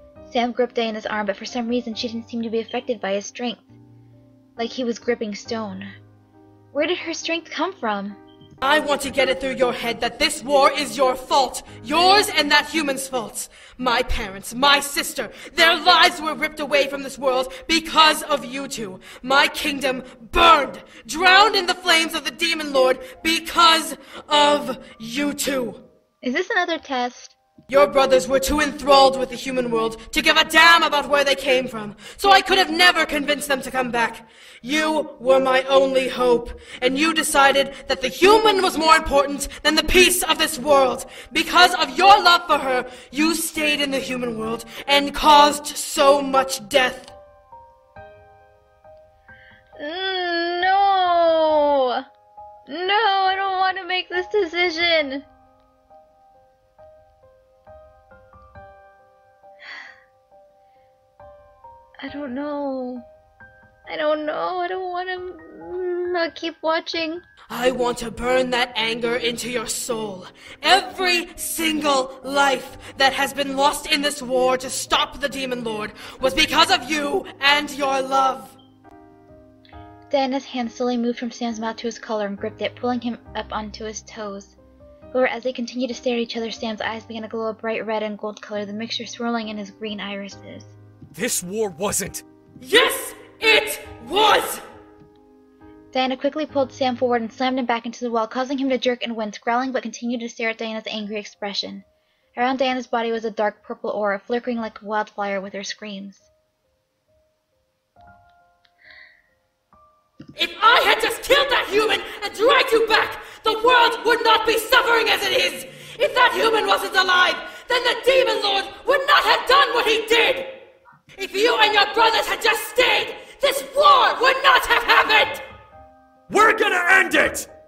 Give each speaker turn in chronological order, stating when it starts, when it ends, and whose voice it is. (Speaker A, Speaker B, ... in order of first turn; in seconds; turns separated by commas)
Speaker A: 0.3-3.8, Speaker A: 4.6-5.9, Speaker A: 6.7-8.2, Speaker B: 8.6-25.8, Speaker A: 26.2-27.4, Speaker B: 27.7-47.1, Speaker A: 49.8-52.0, Speaker A: 52.7-55.3, Speaker A: 62.0-63.1, Speaker A: 63.9-67.2, Speaker B: 67.5-78.5, Speaker A: 80.1-84.5, Speaker A: 85.1-90.8, Speaker C: 91.2-92.2, Speaker B: 92.6-94.6, Speaker A: 95.9-101.8, Speaker A: 102.4-106.3, Speaker B: 110.4-120.7, Speaker B: 121.2-125.4, Speaker C: 126.3-127.5